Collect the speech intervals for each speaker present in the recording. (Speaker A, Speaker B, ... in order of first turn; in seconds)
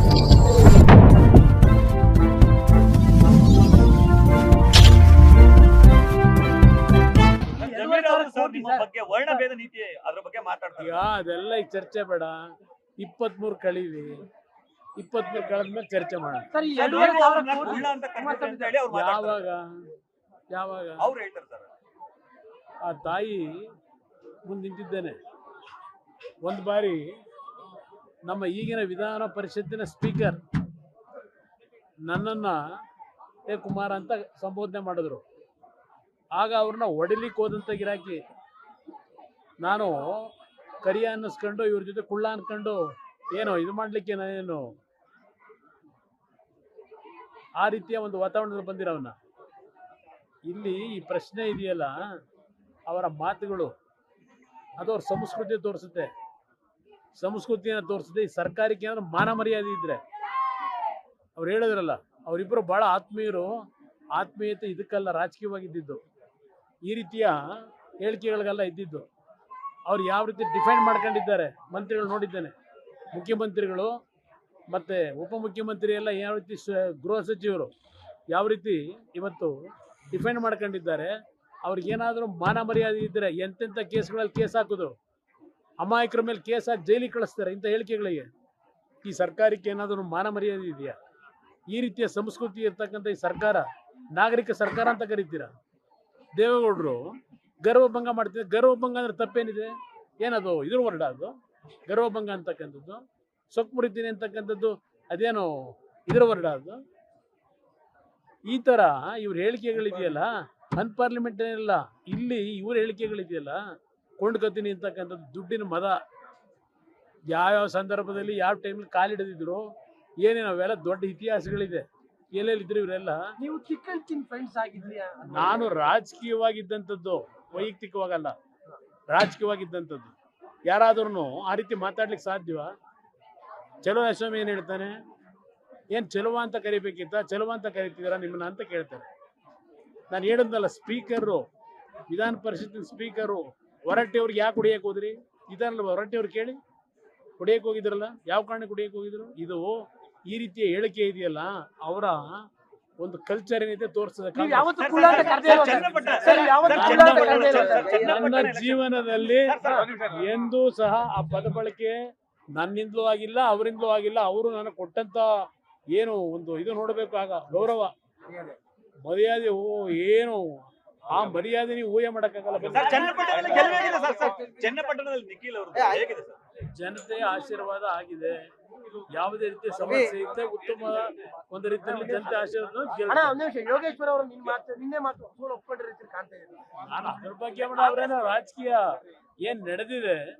Speaker A: 7.6-9.4, 16.5-18.8, 123.4-125.7, 154.3-158.5, 172.9-174.5, 175.8-176.0, 182.0-182.4, 183.1-186.7
Speaker B: 7.6-11.0, 16.7-19.4, 21.0-21.7, 154.8-159.9, 172.7-176.4
Speaker C: 10.8-14.2, 15.0-16.5, 18.9-19.7, 20.5-21.1, 22.9-23.6, 24.5-25.2, 26.4-27.1, 28.3-30.4, 32.1-32.6, 33.5-35.2, 36.4-38.2, 39.6-40.3, 40.8-44.7, 47.6-49.2, 50.5-52.1, 52.9-53.7, 54.8-56.1, 57.2-60.0, 61.4-63.5, 64.2-66.0, 66.9-67.4, 68.0-69.1, 69.9-72.5, 73.1-73.9, 74.7-77.7, 78.3-79.5, 80.1-81.1, 81.7-85.0, 85.8-88.3, 89.0-91.0, 91.7-95.5, 96.4-99.7, 100.2-101.3, 101.9-106.8, 108.5-113.6, 114.2-116.0, 117.3-119.7, 120.2-123.2, 125.3-128.3, 129.1-130.1, 130.7-132.7, 133.8-134.9, 135.9-139.1, 140.1-141.4, 142.1-146.6, 147.4-152.3, 153.0-161.9, 162.6-165.3, 165.9-167.9, 169.1-173.2, 176.8-178.4, 179.1-183.4, 186.8-188.8, 189.4-190.2